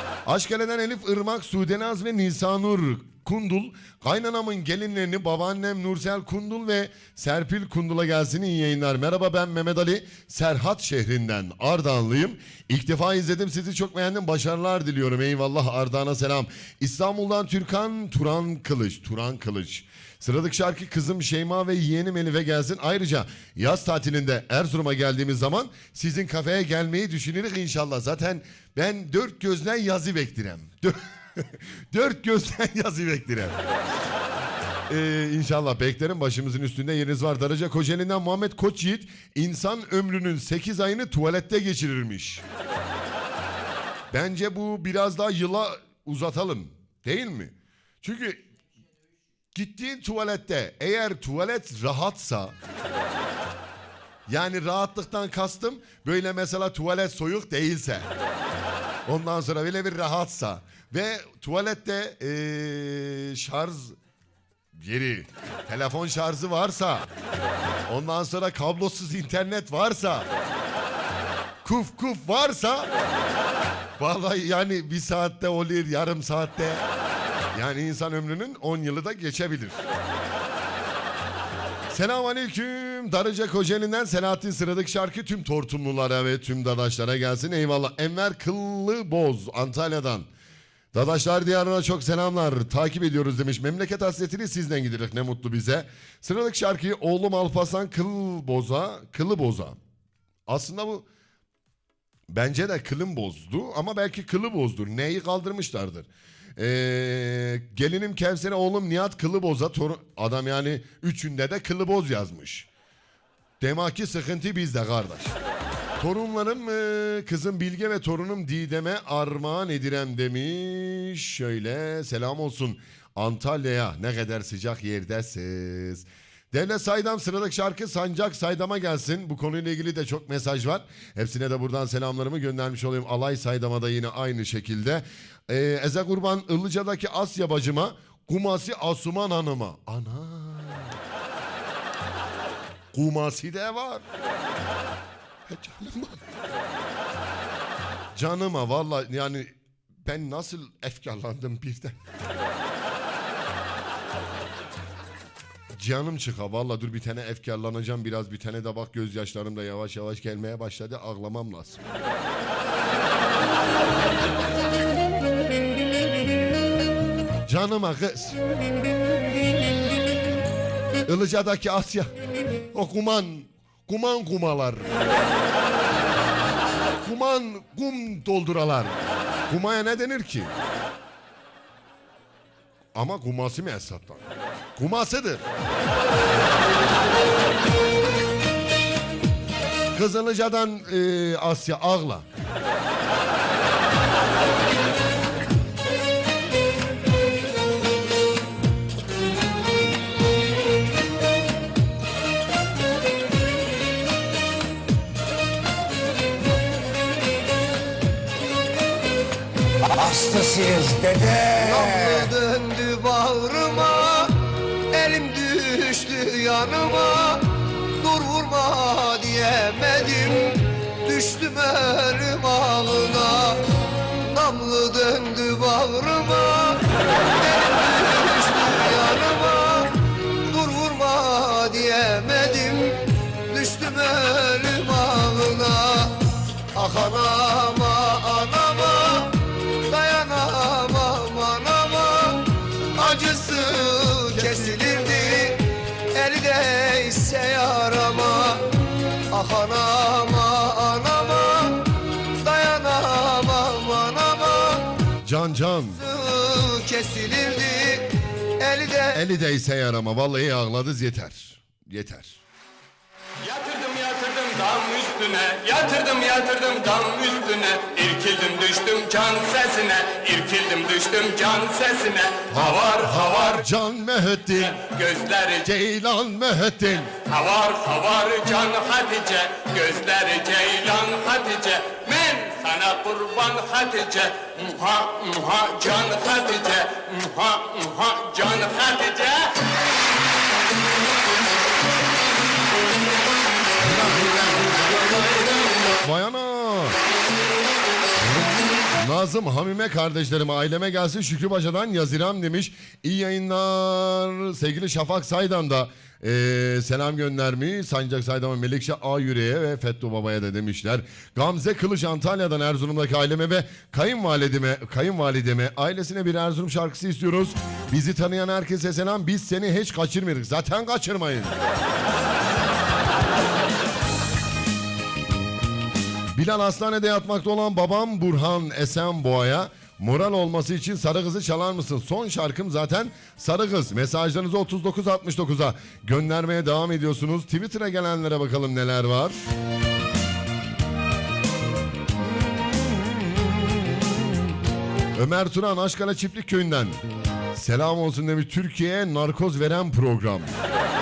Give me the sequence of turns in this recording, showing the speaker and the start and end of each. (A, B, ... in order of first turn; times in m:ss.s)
0:00.2-0:33.6 A
0:34.9-0:42.4 A
0:44.1-0:48.4 A
0:49.5-0:52.5 A
0:54.3-0:58.1 A
0:59.0-1:04.0 A
1:04.7-1:07.1 A
1:07.9-1:10.3 A
1:11.6-1:12.9 A
1:14.0-1:16.8 A
1:17.5-1:19.8 A
1:21.9-1:30.3 A
1:30.9-1:39.8 A
1:40.5-1:41.1 A
1:42.3-1:52.7 A
1:53.6-1:55.3 A
1:56.0-2:21.0 A
2:22.9-2:24.0 A
2:25.4-2:26.2 A
2:28.1-2:32.0 A
2:35.7-2:41.8 A
2:47.4-2:48.4 A
2:51.0-2:52.1 A
2:52.7-2:54.9 A
2:57.0-3:00.5 A
3:02.9-3:04.2 A
3:04.8-3:05.4 A
3:09.9-3:12.2 A
3:29.9-3:32.3 B
3:31.6-3:34.3 C
3:34.9-3:37.5 C
3:38.0-3:43.6 C
3:44.3-3:46.8 C
3:47.4-3:49.9 C
3:50.5-3:56.2 C
3:56.7-3:59.4 C
3:59.9-4:05.6 C
4:04.3-4:04.7 A
4:06.1-4:08.6 C
4:09.3-4:11.9 C
4:12.4-4:14.9 C
4:15.2-4:16.0 A
4:16.0-4:19.2 C
4:19.1-4:22.4 A
4:23.4-4:33.6 D
4:32.5-4:34.8 A
4:34.6-4:35.7 D
4:35.6-4:37.1 A
4:37.2-4:49.5 D
4:53.8-4:57.0 A
4:58.2-5:21.6 A
5:26.3-5:39.4 A
5:42.5-5:44.1 A
5:45.1-5:47.0 A
5:47.5-5:50.5 A